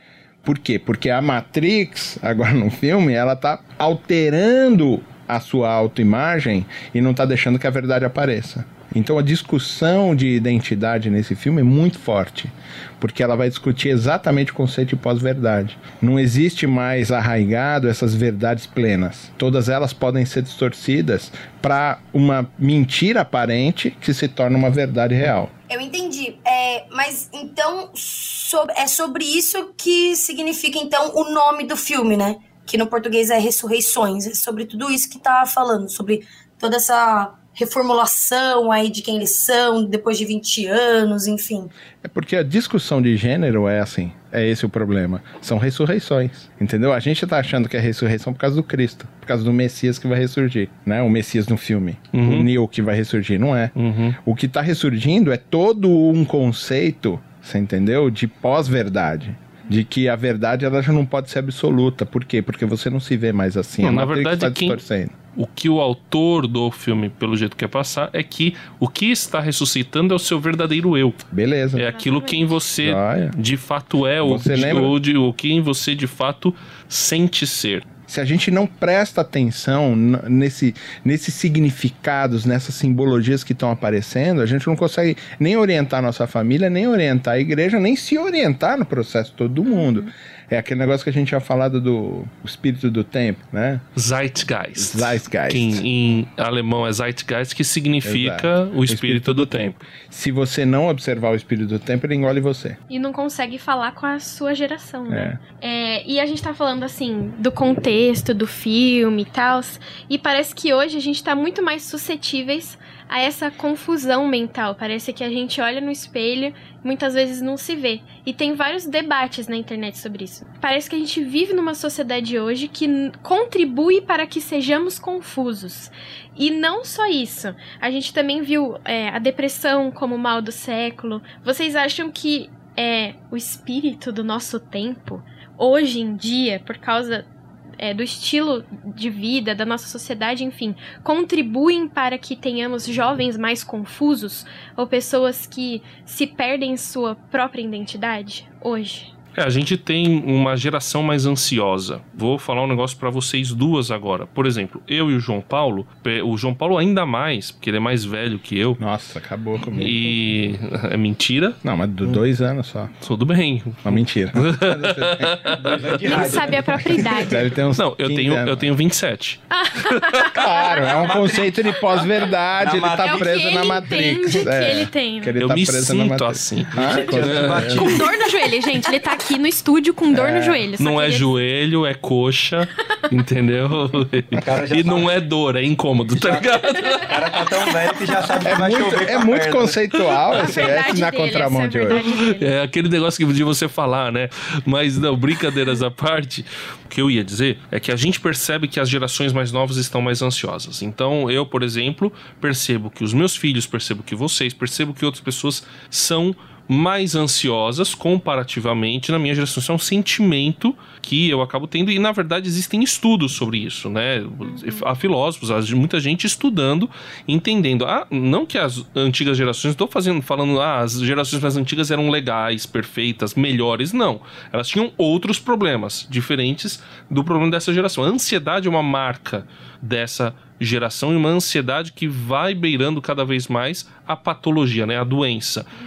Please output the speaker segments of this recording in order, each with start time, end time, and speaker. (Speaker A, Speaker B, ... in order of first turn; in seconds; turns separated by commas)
Speaker A: 0.4-25.5, Speaker B: 25.7-41.7, Speaker A: 42.0-65.1, Speaker C: 52.1-52.5, Speaker C: 53.7-54.2, Speaker C: 63.8-64.8, Speaker C: 65.3-71.2, Speaker A: 71.3-71.9, Speaker C: 71.7-77.8, Speaker D: 71.8-72.6, Speaker A: 72.8-73.3, Speaker A: 74.2-75.0, Speaker A: 78.1-93.8, Speaker D: 89.7-90.1, Speaker C: 94.0-99.8, Speaker A: 94.8-95.8, Speaker A: 98.0-102.8, Speaker D: 102.9-137.3, Speaker A: 105.1-105.4, Speaker D: 137.8-149.1, Speaker C: 149.3-158.8, Speaker A: 158.8-160.1, Speaker C: 159.7-162.2, Speaker A: 161.6-162.9, Speaker C: 163.0-166.8, Speaker A: 163.8-165.5, Speaker E: 165.6-166.6, Speaker D: 166.1-167.4, Speaker A: 166.7-168.7, Speaker C: 167.7-170.0, Speaker D: 169.5-171.1, Speaker A: 170.4-178.0, Speaker E: 170.8-171.7, Speaker E: 172.6-173.4, Speaker D: 173.0-175.4, Speaker C: 175.3-178.0, Speaker E: 176.7-178.2, Speaker D: 177.8-181.3, Speaker A: 180.1-180.7, Speaker C: 180.8-187.1, Speaker E: 184.3-185.2, Speaker E: 186.1-186.5, Speaker E: 187.1-189.8, Speaker A: 188.4-192.0, Speaker C: 190.1-190.8, Speaker D: 190.4-192.5, Speaker C: 191.9-235.7, Speaker D: 214.4-214.9